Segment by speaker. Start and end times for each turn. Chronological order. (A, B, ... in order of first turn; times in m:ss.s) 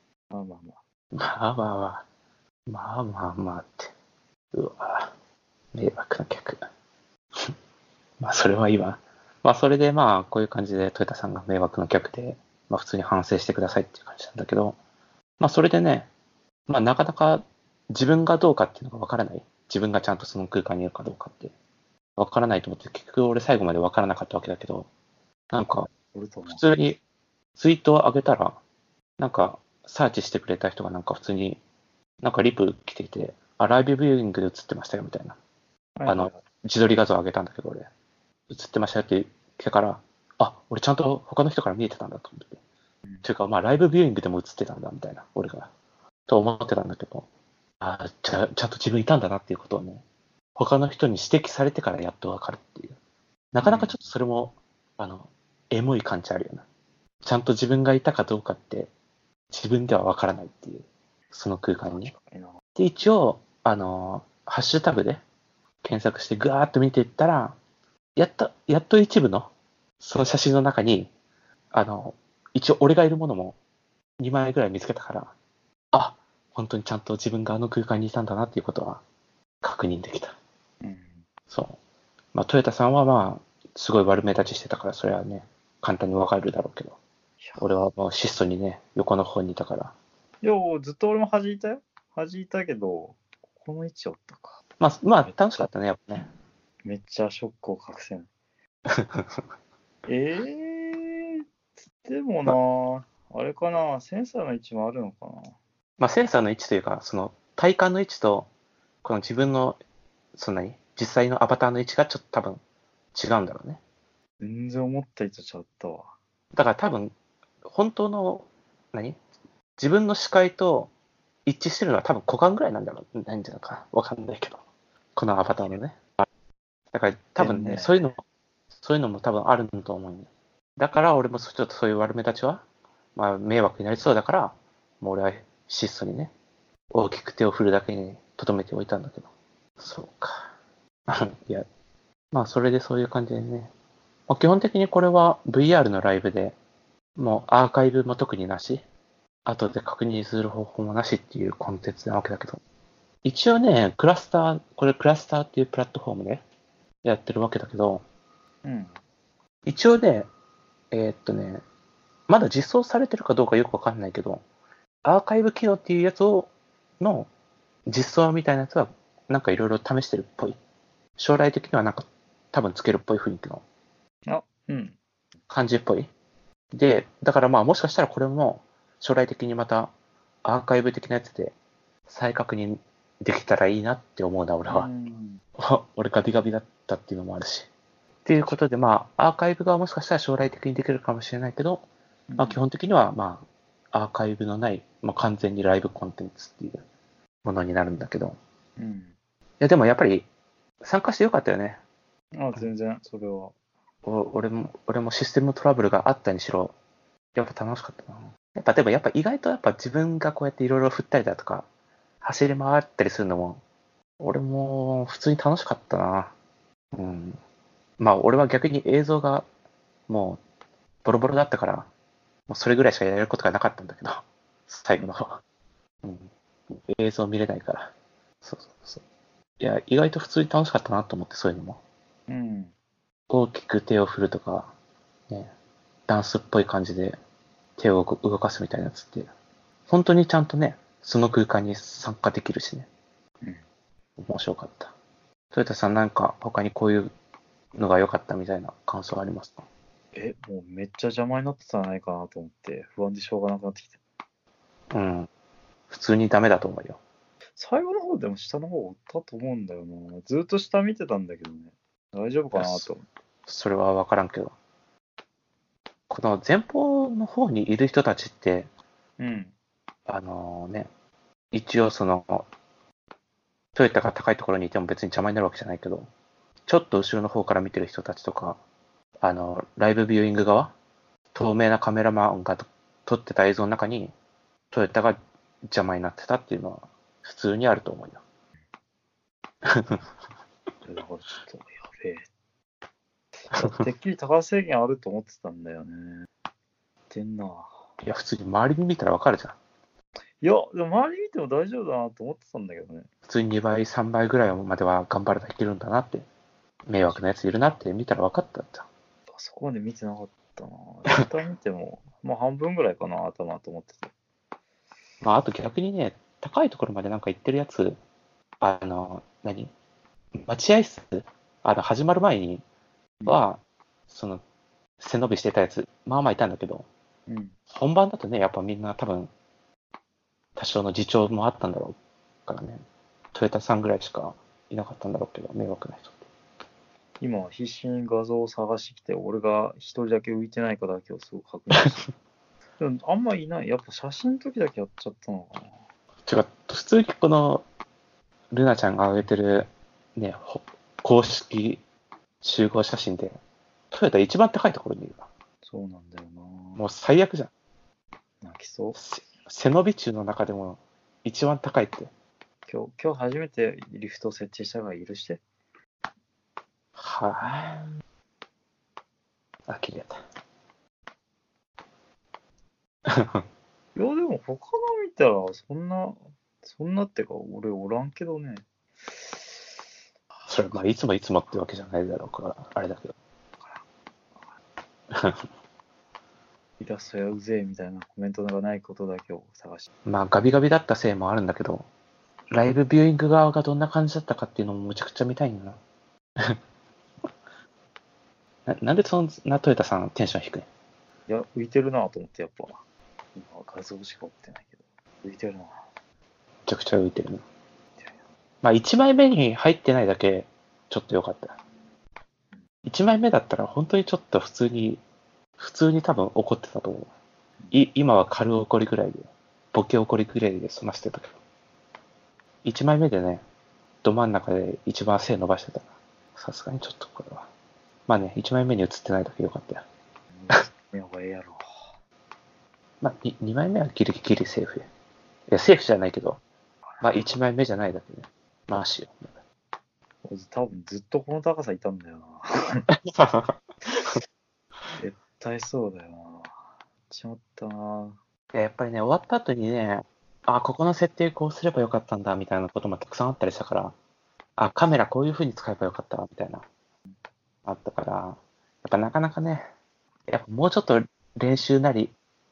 0:00.3-0:00.8 A
0:01.1-0:02.0 B
0:02.7-0:03.9 B
0:04.5-0:05.1 B
0:05.7-0:06.6 B
0:08.2-0:14.8 B
0:15.4-0:16.1 B
0:16.7-0:21.5 B
0:22.2-0:24.9 B
0:25.5-0:25.9 B
0:25.9-0:26.6 A
0:26.4-0:27.0 B
0:27.6-0:28.6 B
0:29.2-0:31.6 B
0:32.2-0:35.4 B
0:36.0-0:36.4 A
0:36.0-0:37.9 B
0:38.5-0:42.6 B
0:43.2-0:45.7 B
0:46.3-0:47.3 B
0:47.8-0:50.0 B
0:50.6-0:53.0 B
0:53.5-0:56.6 B
0:53.6-0:54.1 A
0:57.2-0:58.9 B
0:59.5-1:02.1 B
1:01.8-1:02.6 A
1:02.8-1:05.2 B
1:05.8-1:07.6 B
1:08.2-1:11.1 B
1:11.7-1:13.6 B
1:14.2-1:15.3 B
1:15.9-1:19.0 B
1:19.6-1:20.4 B
1:20.8-1:21.2 A
1:21.5-1:21.8 B
1:22.3-1:27.0 B
1:27.4-1:27.7 A
1:27.6-1:29.9 B
1:30.4-1:34.6 A
1:34.8-1:36.3 B
1:35.2-1:35.7 A
1:36.8-1:38.3 A
1:38.9-1:39.4 B
1:40.1-1:41.4 A
1:42.0-1:45.6 A
1:46.0-1:48.5 B
1:49.0-1:49.8 B
1:50.3-1:52.6 B
1:53.1-1:53.8 B
1:54.4-1:56.1 A
1:56.5-1:57.1 B
1:57.6-1:59.2 B
1:59.8-2:00.9 B
2:01.4-2:04.6 B
2:05.2-2:06.3 B
2:06.9-2:08.2 B
2:07.4-2:08.0 A
2:08.8-2:12.6 B
2:13.2-2:16.3 B
2:16.9-2:20.5 B
2:21.1-2:21.6 B
2:22.3-2:23.7 B
2:24.3-2:26.6 B
2:27.2-2:28.8 B
2:29.4-2:32.6 B
2:33.2-2:36.4 B
2:37.0-2:38.0 B
2:38.6-2:38.9 A
2:39.6-2:40.3 B
2:40.9-2:41.6 B
2:42.3-2:44.4 B
2:45.0-2:47.3 B
2:47.8-2:50.6 B
2:51.2-2:53.6 B
2:54.3-2:55.0 A
2:55.5-2:56.1 B
2:56.7-2:59.9 B
3:00.4-3:01.5 B
3:02.1-3:04.9 B
3:04.7-3:05.4 A
3:05.6-3:07.7 B
3:08.2-3:11.8 B
3:12.3-3:12.6 A
3:12.4-3:16.8 B
3:17.4-3:18.4 B
3:18.8-3:19.1 A
3:19.6-3:20.3 B
3:20.8-3:21.8 B
3:22.4-3:23.5 A
3:24.0-3:26.7 B
3:27.3-3:31.6 B
3:32.2-3:33.6 B
3:34.2-3:36.3 B
3:36.9-3:37.4 B
3:38.0-3:39.4 B
3:40.1-3:40.4 B
3:41.0-3:41.9 B
3:42.5-3:45.4 B
3:46.0-3:47.9 B
3:48.4-3:49.0 B
3:49.6-3:51.8 B
3:52.3-3:52.7 A
3:53.3-3:54.7 B
3:56.1-3:57.2 B
3:57.8-3:59.3 B
3:59.9-4:02.9 B
4:04.2-4:04.9 B
4:05.5-4:07.1 B
4:07.7-4:09.6 B
4:10.1-4:14.0 A
4:14.9-4:15.3 B
4:15.9-4:17.0 B
4:17.6-4:23.0 A
4:22.5-4:22.9 B
4:23.5-4:24.5 B
4:26.1-4:28.7 B
4:29.2-4:29.5 A
4:30.1-4:30.9 B
4:31.5-4:32.5 B
4:33.7-4:36.1 B
4:36.7-4:38.6 B
4:39.2-4:40.7 B
4:41.3-4:44.1 B
4:44.7-4:48.2 B
4:49.6-4:50.0 B
4:50.8-4:52.3 A
4:53.4-4:56.3 A
4:53.5-4:53.8 B
4:57.1-4:57.8 A
4:58.0-4:59.6 B
5:00.4-5:03.1 A
5:03.2-5:06.3 B
5:06.9-5:08.9 B
5:09.3-5:14.1 A
5:15.2-5:18.0 B
5:18.6-5:19.7 B
5:20.3-5:22.6 B
5:23.2-5:24.4 B
5:25.0-5:26.9 B
5:27.3-5:27.5 A
5:27.7-5:29.3 B
5:30.6-5:32.8 B
5:33.3-5:36.1 B
5:37.2-5:42.1 A
5:42.8-5:45.8 A
5:46.2-5:47.6 B
5:48.5-5:51.8 B
5:52.4-5:53.4 B
5:53.9-5:55.3 B
5:55.6-5:56.8 A
5:56.8-5:57.5 B
5:58.4-5:59.0 A
5:58.9-6:02.1 B
6:02.7-6:05.4 A
6:07.0-6:07.8 B
6:07.4-6:07.8 A
6:09.7-6:10.2 B
6:13.0-6:13.4 B
6:13.9-6:18.6 A
6:20.3-6:20.8 A
6:20.5-6:23.1 B
6:25.1-6:25.4 B
6:26.8-6:29.9 A
6:30.0-6:31.8 B
6:32.5-6:35.8 B
6:38.6-6:40.7 B
6:41.3-6:42.8 A
6:43.3-6:45.8 A
6:46.6-6:47.4 B
6:48.6-6:51.5 B
6:52.8-6:55.0 B
6:55.6-6:57.1 B
6:57.7-7:01.3 B
7:02.6-7:03.4 B
7:04.0-7:07.5 B
7:08.1-7:09.8 B
7:10.3-7:11.8 A
7:13.0-7:14.8 B
7:15.5-7:16.4 B
7:17.0-7:17.2 A
7:17.0-7:19.4 B
7:20.2-7:22.9 A
7:23.0-7:24.2 B
7:25.0-7:26.6 A
7:27.1-7:28.2 A
7:28.5-7:33.9 B
7:34.6-7:36.6 B
7:37.6-7:39.6 B
7:40.3-7:42.1 B